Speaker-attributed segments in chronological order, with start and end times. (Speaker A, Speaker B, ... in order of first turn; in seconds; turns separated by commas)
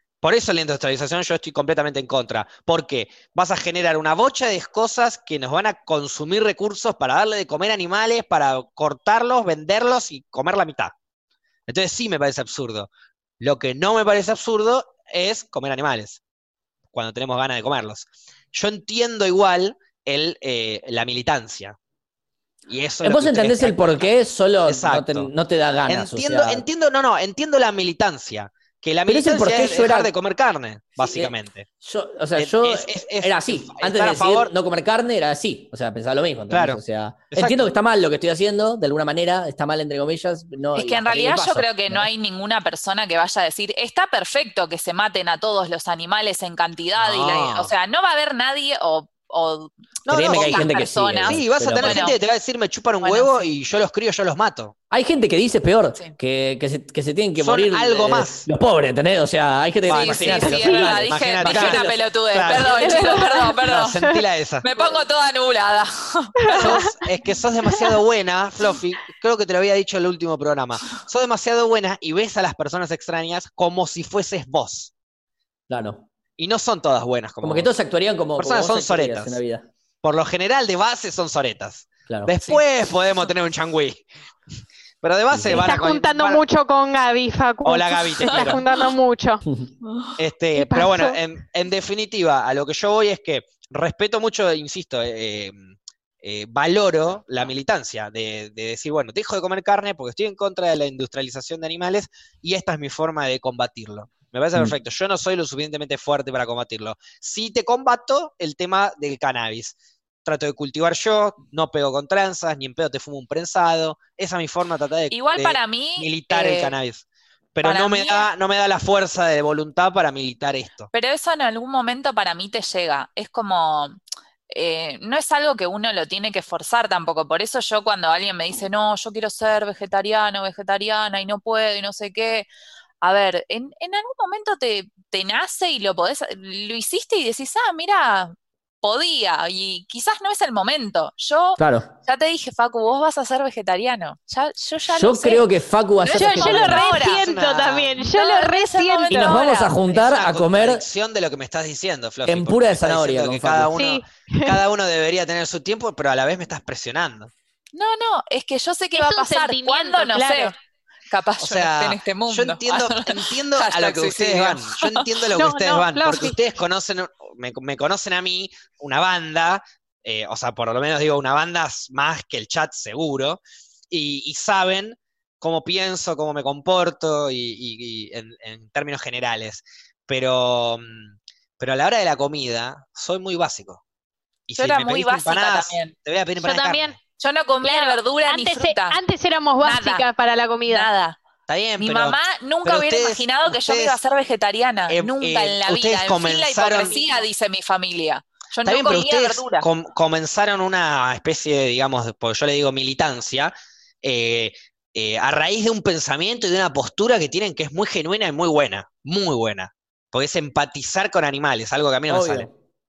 Speaker A: 0.2-10.9, Speaker A: 11.7-16.2, Speaker A: 16.9-21.8, Speaker A: 22.7-24.1, Speaker B: 23.0-26.6, Speaker A: 24.6-25.3, Speaker A: 25.9-31.6, Speaker B: 29.1-30.1, Speaker B: 31.0-42.1, Speaker A: 32.4-34.5, Speaker A: 36.5-36.8, Speaker A: 37.3-37.7, Speaker C: 40.7-52.1, Speaker A: 47.0-47.7, Speaker A: 50.0-54.7, Speaker B: 50.1-52.1, Speaker B: 54.9-62.0, Speaker A: 57.4-58.5, Speaker A: 59.9-64.7, Speaker C: 59.9-66.8, Speaker D: 62.8-64.2, Speaker D: 66.5-66.8, Speaker A: 66.5-74.9, Speaker B: 75.7-76.0, Speaker A: 76.4-77.7, Speaker B: 77.4-79.6, Speaker A: 78.4-79.4, Speaker A: 80.0-84.0, Speaker A: 85.0-86.4, Speaker B: 85.3-85.6, Speaker D: 85.5-89.4, Speaker A: 87.6-88.6, Speaker A: 90.2-120.9, Speaker D: 90.5-91.2, Speaker C: 115.1-116.7, Speaker C: 117.6-118.3, Speaker C: 120.9-123.9, Speaker C: 124.5-132.5, Speaker C: 133.0-145.4, Speaker B: 141.6-141.9, Speaker B: 144.9-146.8, Speaker C: 146.0-147.3, Speaker D: 146.1-149.4, Speaker A: 146.8-148.0, Speaker C: 148.0-149.8, Speaker B: 149.1-150.8, Speaker A: 149.9-157.3, Speaker B: 152.2-153.7, Speaker D: 153.7-154.6, Speaker C: 157.7-160.6, Speaker D: 158.9-160.5, Speaker C: 161.1-165.1, Speaker A: 161.4-183.8, Speaker D: 165.3-166.4, Speaker A: 184.5-187.0, Speaker C: 184.6-185.9, Speaker D: 186.4-186.9, Speaker C: 187.2-189.0, Speaker D: 187.6-190.9, Speaker C: 189.6-190.1, Speaker C: 190.7-191.2, Speaker A: 191.5-194.0, Speaker C: 191.8-199.6, Speaker A: 194.9-197.1, Speaker A: 198.6-212.5, Speaker B: 212.1-212.5